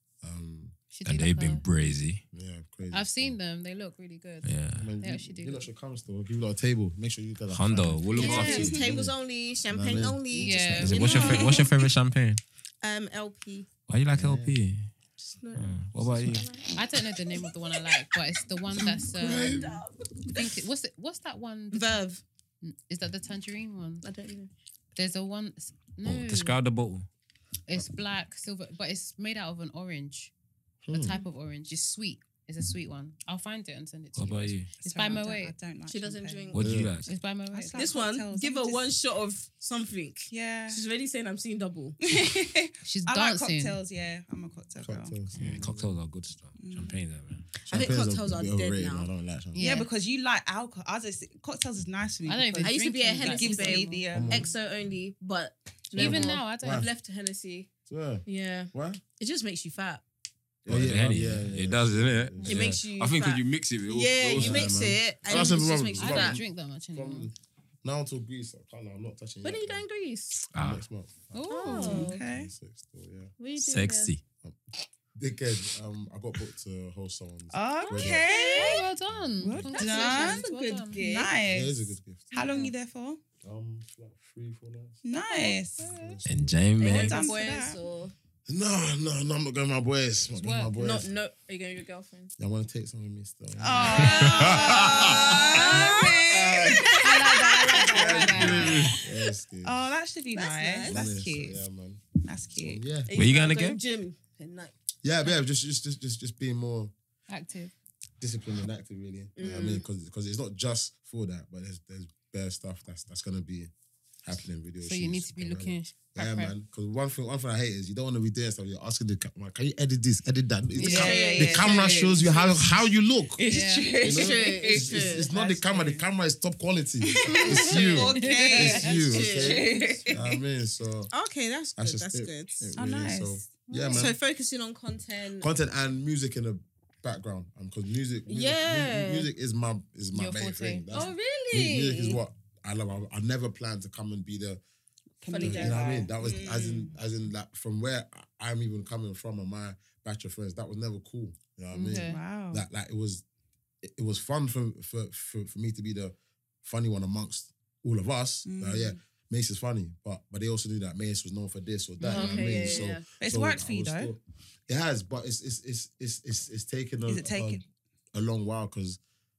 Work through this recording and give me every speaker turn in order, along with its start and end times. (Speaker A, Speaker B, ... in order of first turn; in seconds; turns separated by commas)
Speaker A: 0.2-0.8, Speaker B: 0.9-1.6, Speaker C: 1.1-2.2, Speaker A: 2.3-3.4, Speaker B: 2.9-5.7, Speaker C: 4.4-4.9, Speaker A: 4.8-9.2, Speaker C: 7.5-8.9, Speaker D: 8.1-11.8, Speaker B: 8.2-8.8, Speaker A: 9.7-11.0, Speaker B: 10.3-11.4, Speaker C: 10.8-12.4, Speaker E: 11.1-11.6, Speaker D: 12.8-13.7, Speaker C: 13.9-14.9, Speaker A: 14.1-14.6, Speaker D: 15.2-16.8, Speaker C: 15.5-16.5, Speaker B: 16.8-19.6, Speaker A: 18.8-19.8, Speaker D: 19.3-19.9, Speaker B: 20.4-22.1, Speaker D: 21.7-22.2, Speaker B: 22.6-24.1, Speaker D: 24.0-24.5, Speaker B: 25.0-26.6, Speaker C: 26.0-27.1, Speaker B: 27.7-30.3, Speaker A: 30.9-31.2, Speaker B: 30.9-35.5, Speaker C: 34.1-34.7, Speaker E: 34.8-36.5, Speaker D: 35.9-36.7, Speaker C: 36.5-37.2, Speaker A: 36.6-36.9, Speaker B: 37.0-37.9, Speaker E: 37.5-38.9, Speaker D: 37.7-42.0, Speaker E: 40.3-40.8, Speaker E: 42.0-45.2, Speaker B: 42.8-43.8, Speaker A: 44.8-45.9, Speaker C: 45.4-47.5, Speaker B: 45.4-45.7, Speaker E: 46.6-47.0, Speaker D: 47.6-49.1, Speaker A: 47.7-49.7, Speaker B: 49.5-49.9, Speaker E: 49.6-54.5, Speaker B: 52.3-54.0, Speaker D: 52.6-57.7, Speaker A: 54.1-54.5, Speaker B: 55.9-56.9, Speaker A: 56.0-56.9, Speaker A: 57.9-59.0, Speaker D: 58.3-60.0, Speaker A: 60.7-62.9, Speaker C: 60.7-64.8, Speaker D: 62.5-66.4, Speaker A: 64.3-69.8, Speaker B: 65.3-67.3, Speaker D: 69.4-70.4, Speaker C: 70.5-70.8, Speaker A: 70.6-73.3, Speaker B: 71.3-72.2, Speaker D: 71.5-72.2, Speaker E: 71.7-72.5, Speaker D: 73.4-74.1, Speaker C: 73.6-74.2, Speaker A: 75.2-78.3, Speaker E: 77.5-78.9, Speaker D: 78.2-78.9, Speaker B: 78.5-81.1, Speaker A: 79.1-79.7, Speaker E: 79.4-83.2, Speaker D: 79.8-81.3, Speaker A: 81.5-82.3, Speaker B: 82.4-82.7, Speaker A: 83.4-85.0, Speaker E: 85.0-85.8, Speaker B: 85.3-86.2, Speaker A: 85.8-86.6, Speaker C: 86.2-87.2, Speaker D: 86.8-88.1, Speaker E: 86.8-87.8, Speaker A: 88.5-91.1, Speaker B: 90.4-90.8, Speaker D: 90.8-92.3, Speaker A: 92.4-96.8, Speaker E: 93.6-97.0, Speaker D: 93.8-99.0, Speaker C: 94.0-95.0, Speaker B: 97.0-98.9, Speaker A: 97.8-99.8, Speaker C: 98.5-99.0, Speaker E: 99.6-101.6, Speaker D: 100.3-101.1, Speaker A: 100.9-103.2, Speaker E: 102.2-102.8, Speaker D: 103.1-104.7, Speaker C: 103.1-103.8, Speaker A: 105.0-106.9, Speaker B: 107.3-107.7, Speaker A: 108.2-113.7, Speaker D: 109.4-109.8, Speaker A: 114.2-131.1, Speaker B: 114.8-116.5, Speaker B: 120.8-121.4, Speaker E: 120.8-122.8, Speaker D: 120.8-122.3, Speaker E: 123.4-126.0, Speaker B: 123.4-124.0, Speaker D: 124.0-125.3, Speaker E: 127.1-130.2, Speaker B: 127.3-129.0, Speaker D: 127.4-130.2, Speaker D: 131.1-132.7, Speaker A: 131.8-134.2, Speaker E: 132.8-133.5, Speaker B: 133.7-134.1, Speaker D: 133.9-135.5, Speaker A: 135.4-144.6, Speaker D: 138.3-139.3, Speaker B: 140.1-140.9, Speaker D: 140.9-142.2, Speaker E: 145.2-146.9, Speaker D: 145.3-146.1, Speaker A: 145.4-153.2, Speaker B: 151.7-152.2, Speaker E: 152.1-152.7, Speaker A: 153.8-167.6, Speaker E: 158.4-159.0, Speaker B: 162.0-162.9, Speaker D: 162.1-163.1, Speaker E: 163.2-164.1, Speaker E: 167.1-167.6, Speaker A: 168.1-169.0